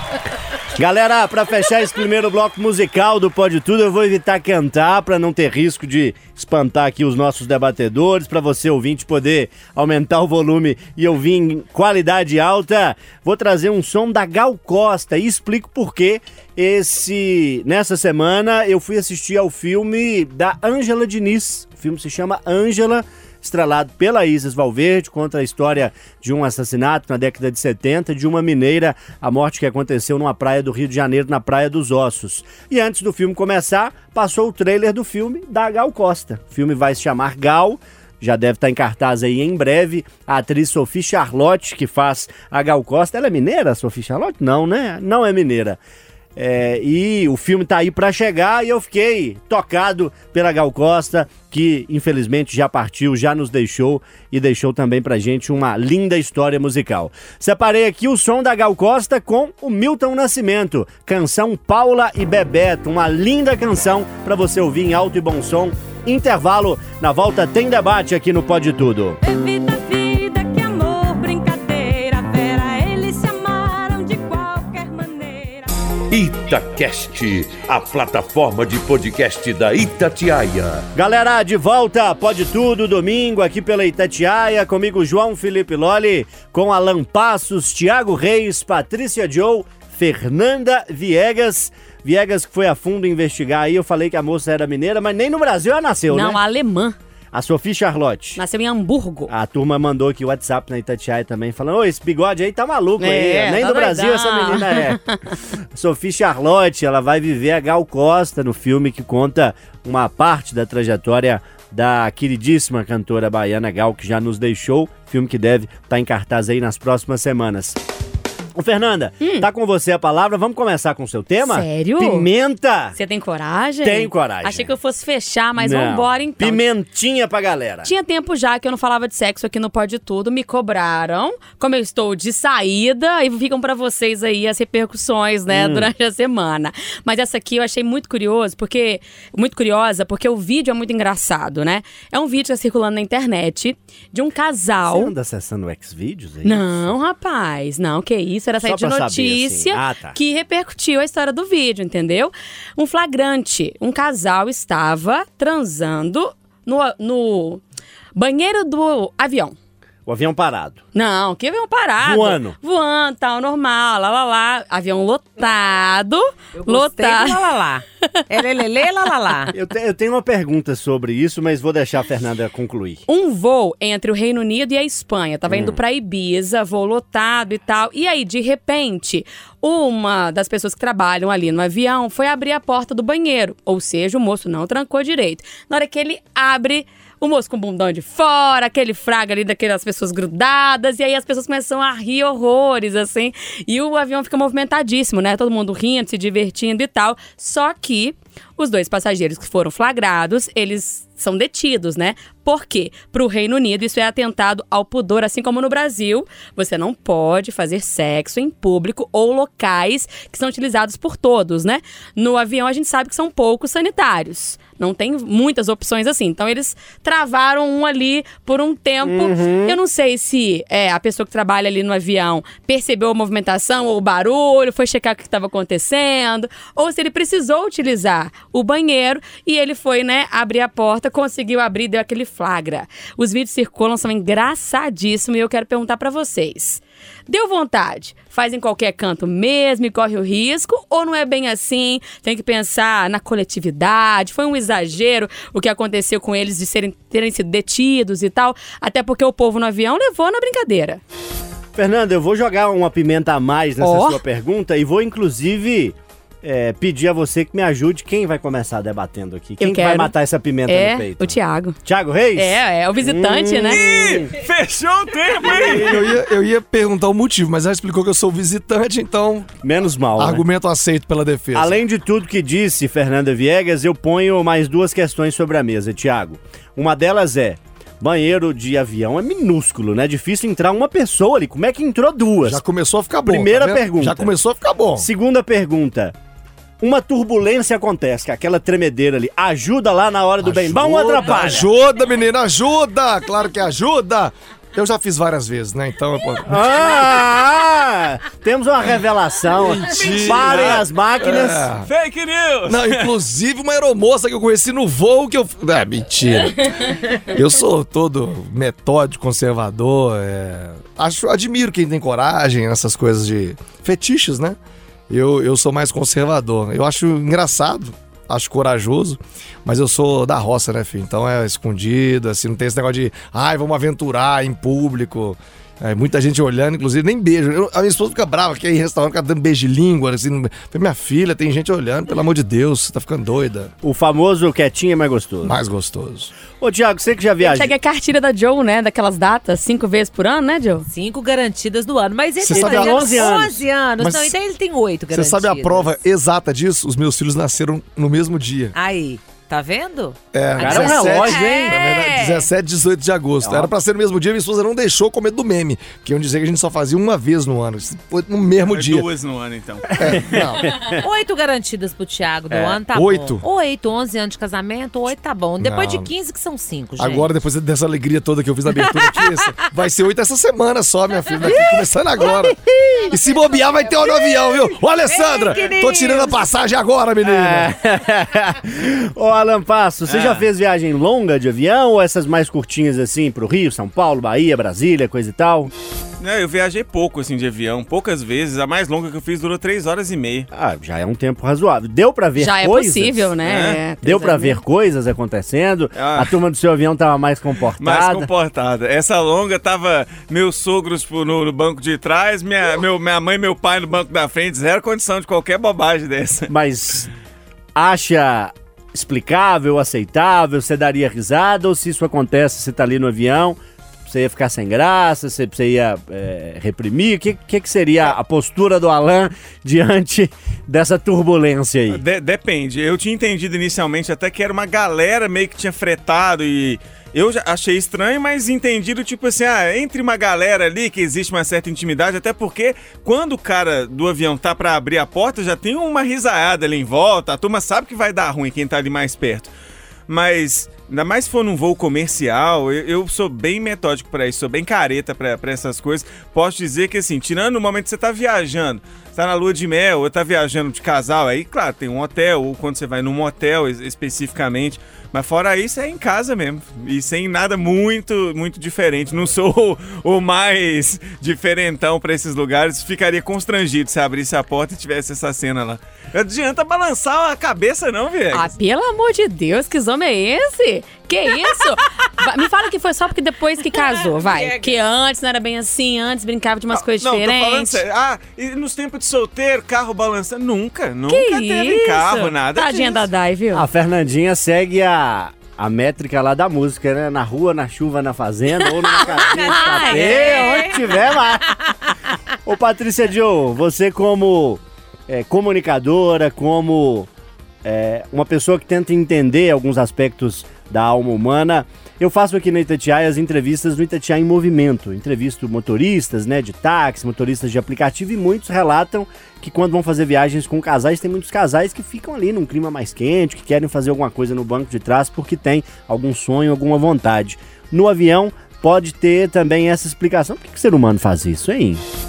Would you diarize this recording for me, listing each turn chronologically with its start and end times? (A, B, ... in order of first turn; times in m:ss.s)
0:00.7-0:45.8 A
0:46.4-1:09.2 A
1:16.1-1:20.8 B
1:20.9-1:36.4 A
1:36.1-1:36.9 C
1:37.3-1:38.4 A
1:38.4-1:39.3 C
1:39.3-1:45.0 A
1:43.0-1:45.3 C
1:45.7-1:57.8 A
1:58.6-2:02.9 A
1:59.2-1:59.5 C
2:01.4-2:02.3 C
2:03.0-2:06.6 C
2:03.8-2:04.7 A
2:05.6-2:07.9 A
2:07.8-2:25.1 C
2:15.5-2:15.9 A
2:24.8-2:26.8 A
2:26.4-2:37.6 C
2:28.6-2:30.2 A
2:38.2-2:39.5 C
2:40.0-2:40.8 A
2:40.9-2:47.4 C
2:42.0-2:42.6 A
2:46.6-2:49.5 D
2:49.5-2:53.0 A
2:53.1-4:11.0 C
2:55.5-2:55.8 A
3:39.0-3:39.8 A
4:11.7-4:21.3 A
4:13.8-4:14.2 C
4:19.6-4:20.1 C
4:20.7-4:21.8 C
4:21.8-4:24.3 A
4:22.4-4:23.8 C
4:23.7-4:26.1 E
4:25.5-4:29.5 F
4:29.6-4:30.4 A
4:30.2-4:31.8 F
4:31.5-4:42.6 A
4:42.4-4:45.1 F
4:43.2-4:44.3 A
4:45.0-4:46.1 A
4:46.8-4:51.6 A
4:50.4-4:56.6 F
4:56.5-5:01.7 A
4:59.6-5:01.9 F
5:00.1-5:00.8 E
5:01.8-5:03.1 E
5:02.7-5:14.6 F
5:15.1-5:33.7 F
5:33.8-5:35.5 A
5:35.4-5:36.3 F
5:36.6-5:37.7 A
5:37.4-5:40.8 C
5:40.9-5:46.0 D
5:42.4-5:43.4 F
5:42.5-5:43.6 A
5:44.0-5:44.3 F
5:45.1-5:48.7 F
5:48.7-5:52.4 D
5:50.3-5:59.1 F
5:50.6-5:51.8 A
5:53.4-5:53.7 A
5:58.7-6:00.6 E
5:59.9-6:00.7 F
6:00.7-6:01.0 A
6:01.0-6:07.3 D
6:02.5-6:02.8 A
6:02.9-6:03.4 F
6:05.6-6:06.1 F
6:07.0-6:12.5 F
6:08.9-6:09.4 D
6:11.4-6:13.1 A
6:13.1-6:17.7 F
6:15.0-6:16.5 D
6:17.2-6:25.7 A
6:20.1-6:20.5 E
6:26.2-6:30.5 E
6:30.5-6:33.3 A
6:32.4-6:34.6 C
6:33.4-6:33.8 E
6:34.0-6:38.2 A
6:35.9-6:36.3 E
6:37.8-6:46.5 E
6:46.5-6:47.1 A
6:47.7-7:02.0 A
7:01.9-7:19.5 E
7:20.1-7:48.5 E
7:48.3-7:57.8 C
7:53.7-7:54.8 D
7:56.7-8:03.1 E
8:01.1-8:03.6 C
8:03.5-8:11.6 A
8:08.8-8:11.2 D
8:09.0-8:10.6 C
8:12.4-8:17.1 A
8:17.6-8:41.8 A